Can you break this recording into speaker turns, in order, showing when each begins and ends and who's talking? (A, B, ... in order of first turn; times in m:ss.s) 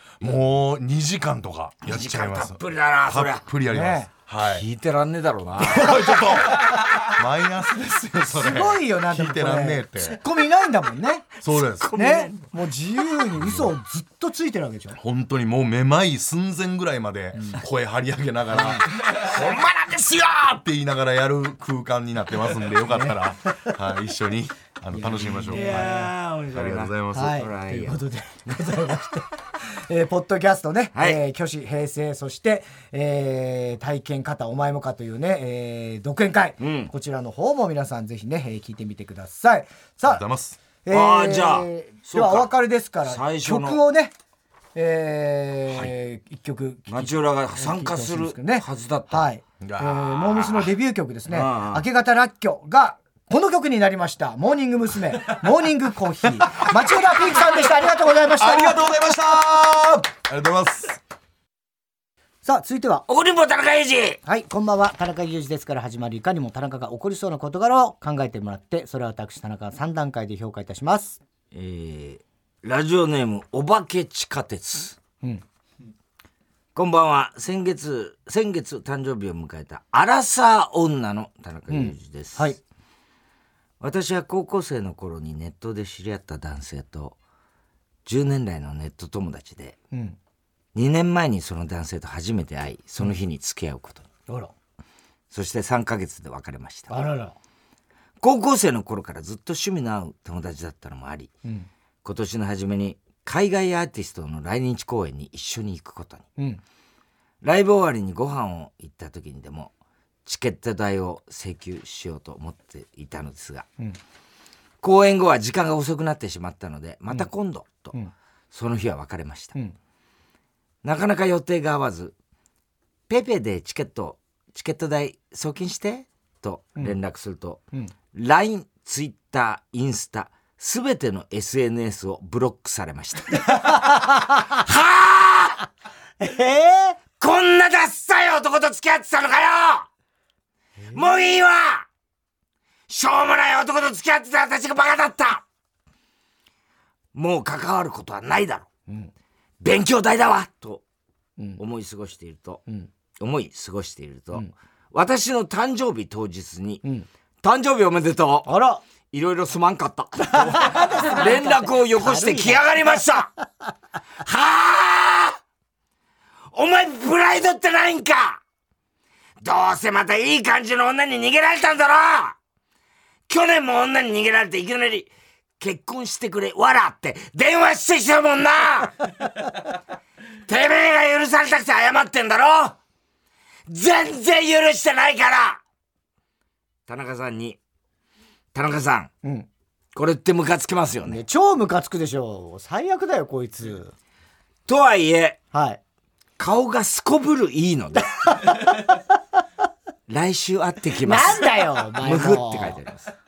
0:00.2-0:04.7 A
0:01.8-0:03.4 B
0:03.7-0:04.1 C
0:04.4-0:06.3 B
0:05.6-0:10.2 A
0:08.3-0:11.3 C
0:11.4-0:11.9 A
0:11.7-0:12.4 B
0:11.9-0:15.0 C
0:13.4-0:13.8 A
0:15.0-0:19.6 A
0:18.5-0:18.8 C
0:18.9-0:20.4 B
0:20.3-0:27.4 A
0:22.9-0:23.7 C
0:24.9-0:26.1 C
0:25.3-0:28.0 B
0:27.1-0:40.2 C
0:31.0-0:31.2 B
0:36.6-0:36.9 B
0:40.1-0:40.6 A
0:40.8-0:44.1 C
0:40.9-0:42.5 B
0:43.0-0:43.8 B
0:44.8-0:58.8 C
0:46.9-0:49.3 B
0:49.6-0:50.7 A
0:51.3-0:51.8 B
0:58.4-1:01.0 A
1:02.4-1:03.0 C
1:03.1-1:04.2 B
1:04.2-1:11.2 C
1:11.5-1:15.0 B
1:16.8-1:22.6 B
1:21.7-1:22.6 C
1:23.8-1:27.2 B
1:28.1-1:29.8 B
1:29.9-1:30.2 C
1:30.8-1:34.1 B
1:34.3-1:34.5 C
1:35.3-1:37.1 B
1:36.9-1:37.4 C
1:38.2-1:41.3 B
1:42.0-1:46.3 B
1:47.4-1:49.7 B
1:50.2-1:53.7 B
1:54.8-1:57.9 B
1:58.5-1:59.6 B
2:00.8-2:02.1 B
2:03.1-2:15.7 B
2:13.4-2:14.5 C
2:16.2-2:17.0 C
2:17.2-2:19.9 B
2:20.9-2:21.9 B
2:22.9-2:25.4 B
2:27.1-2:28.7 B
2:29.6-2:30.8 B
2:31.6-2:32.6 B
2:33.2-2:36.8 B
2:37.4-2:38.5 B
2:38.5-2:38.8 C
2:39.1-2:43.3 B
2:40.3-2:43.0 C
2:44.2-2:45.4 B
2:46.5-2:48.4 B
2:49.4-2:52.4 B
2:53.3-2:59.5 B
3:00.5-3:02.8 B
3:03.7-3:05.6 B
3:06.9-3:07.6 B
3:08.5-3:09.1 B
3:10.0-3:11.2 B
3:11.0-3:13.9 C
3:14.7-3:15.4 B
3:15.5-3:15.8 C
3:16.4-3:18.7 B
3:18.0-3:19.0 C
3:20.1-3:23.1 B
3:21.0-3:22.8 C